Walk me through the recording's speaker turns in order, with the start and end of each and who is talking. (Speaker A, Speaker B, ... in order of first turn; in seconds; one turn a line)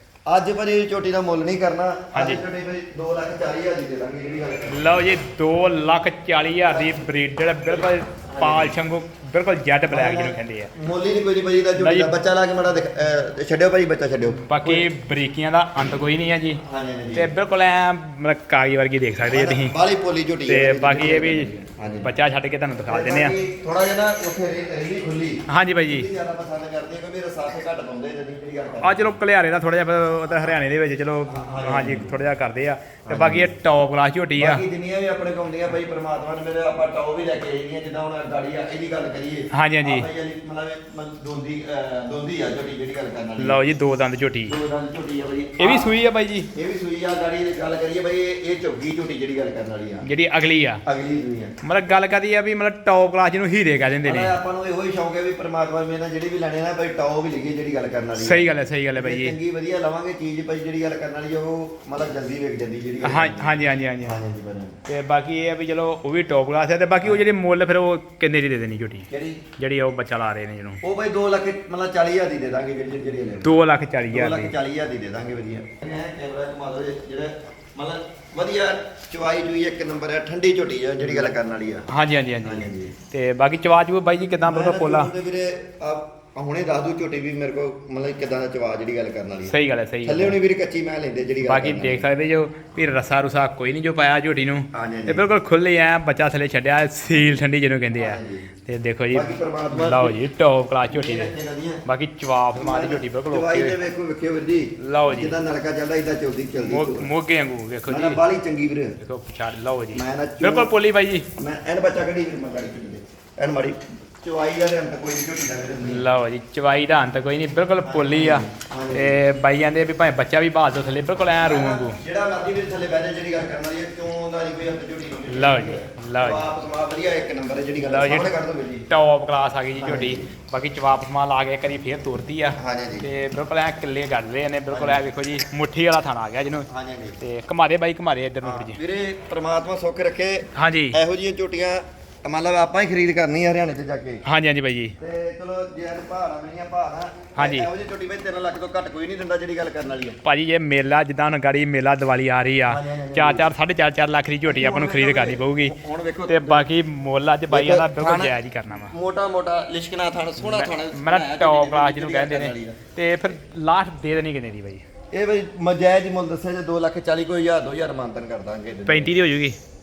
Speaker A: 0.3-5.1
Speaker B: 2.1-2.4
Speaker B: 4.7-10.7
Speaker A: 6.7-7.1
Speaker A: 7.7-8.8
Speaker A: 9.9-14.9
Speaker B: 11.8-12.1
Speaker B: 14.3-16.6
Speaker A: 16.6-17.3
Speaker B: 17.1-19.7
Speaker A: 19.2-22.1
Speaker B: 20.5-21.5
Speaker B: 22.0-23.4
Speaker A: 22.9-29.2
Speaker B: 25.5-26.1
Speaker B: 28.8-34.6
Speaker A: 31.3-32.2
Speaker A: 33.1-33.5
Speaker A: 34.4-43.6
Speaker B: 39.5-40.1
Speaker B: 43.4-44.5
Speaker A: 44.5-46.0
Speaker B: 45.6-46.5
Speaker A: 46.5-50.0
Speaker B: 50.0-50.8
Speaker A: 50.9-51.5
Speaker B: 51.6-54.3
Speaker A: 54.0-64.8
Speaker B: 58.2-59.4
Speaker B: 63.0-64.2
Speaker B: 64.9-70.8
Speaker A: 69.1-69.4
Speaker A: 70.8-81.9
Speaker B: 73.4-74.5
Speaker B: 81.1-81.3
Speaker B: 81.9-85.1
Speaker A: 82.4-82.9
Speaker A: 84.5-92.1
Speaker B: 89.5-90.3
Speaker B: 91.5-101.3
Speaker A: 94.7-95.3
Speaker A: 97.9-98.5
Speaker A: 99.1-100.2
Speaker A: 100.9-101.8
Speaker B: 101.9-103.8
Speaker A: 102.5-107.1
Speaker B: 104.8-105.4
Speaker B: 106.6-108.2
Speaker A: 107.9-109.0
Speaker B: 109.0-111.3
Speaker A: 109.9-110.7
Speaker A: 111.4-116.1
Speaker B: 115.8-122.0
Speaker A: 117.8-119.2
Speaker A: 121.4-128.9
Speaker B: 125.3-126.5
Speaker B: 127.8-128.3
Speaker B: 128.9-136.7
Speaker A: 129.8-130.3
Speaker A: 132.6-133.1
Speaker A: 134.7-135.0
Speaker A: 136.7-137.2
Speaker B: 137.2-138.8
Speaker A: 138.4-144.2
Speaker B: 140.6-141.0
Speaker B: 144.3-145.0
Speaker A: 145.0-150.2
Speaker B: 147.4-147.7
Speaker B: 150.2-155.8
Speaker A: 152.7-153.5
Speaker A: 154.5-156.7
Speaker B: 156.3-158.9
Speaker A: 157.5-162.8
Speaker B: 160.4-164.8
Speaker A: 165.1-169.1
Speaker B: 168.9-169.6